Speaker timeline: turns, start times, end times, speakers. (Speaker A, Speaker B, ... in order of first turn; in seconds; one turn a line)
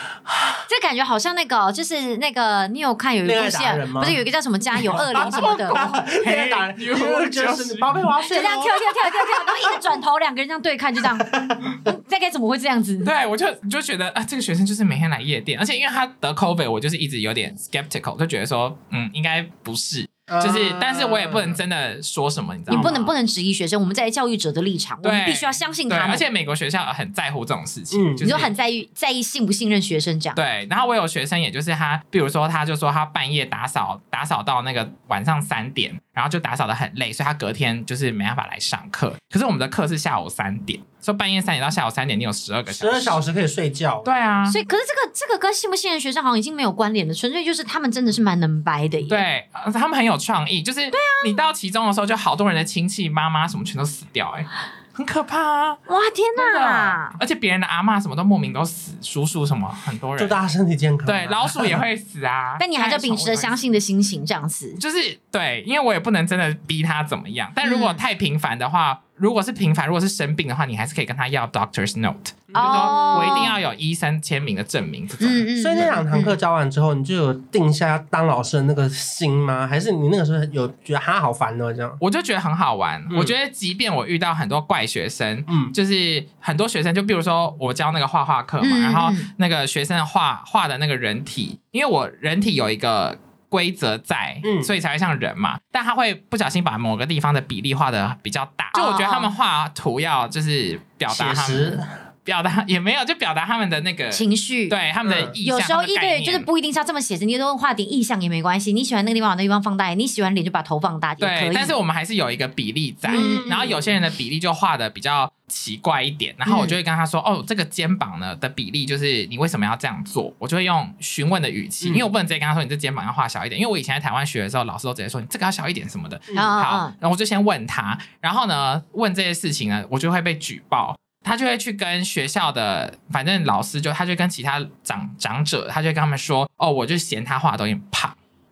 Speaker A: 0.3-0.6
Speaker B: 0.7-5.9
Speaker A: 3.2-4.2
Speaker A: 4.8-9.9
Speaker C: 4.9-8.1
Speaker B: 8.2-13.1
Speaker A: 11.2-11.8
Speaker C: 13.0-23.1
Speaker A: 20.3-21.6
Speaker A: 22.7-23.0
Speaker B: 22.7-26.2
Speaker C: 25.0-28.5
Speaker A: 27.9-28.4
Speaker B: 28.2-30.4
Speaker C: 30.3-43.2
Speaker A: 42.7-44.4
Speaker C: 44.0-44.6
Speaker B: 44.5-49.2
Speaker C: 49.1-55.8
Speaker B: 50.9-51.4
Speaker B: 55.9-57.2
Speaker C: 56.4-60.4
Speaker A: 60.2-61.8
Speaker C: 61.0-63.6
Speaker B: 62.6-64.8
Speaker C: 64.8-76.0
Speaker B: 67.6-68.0
Speaker A: 72.5-73.5
Speaker B: 72.5-73.6
Speaker B: 75.2-76.4
Speaker A: 75.6-82.0
Speaker C: 82.0-106.5
Speaker A: 83.1-83.3
Speaker A: 85.5-85.7
Speaker B: 88.6-89.3
Speaker A: 94.4-94.7
Speaker B: 98.7-99.3
Speaker A: 101.1-101.9
Speaker B: 104.1-104.8
Speaker A: 105.0-105.3
Speaker B: 105.4-111.7
Speaker C: 111.2-138.2
Speaker B: 113.1-113.5
Speaker A: 113.1-113.9
Speaker B: 116.5-116.8
Speaker A: 121.8-122.1
Speaker B: 126.3-126.9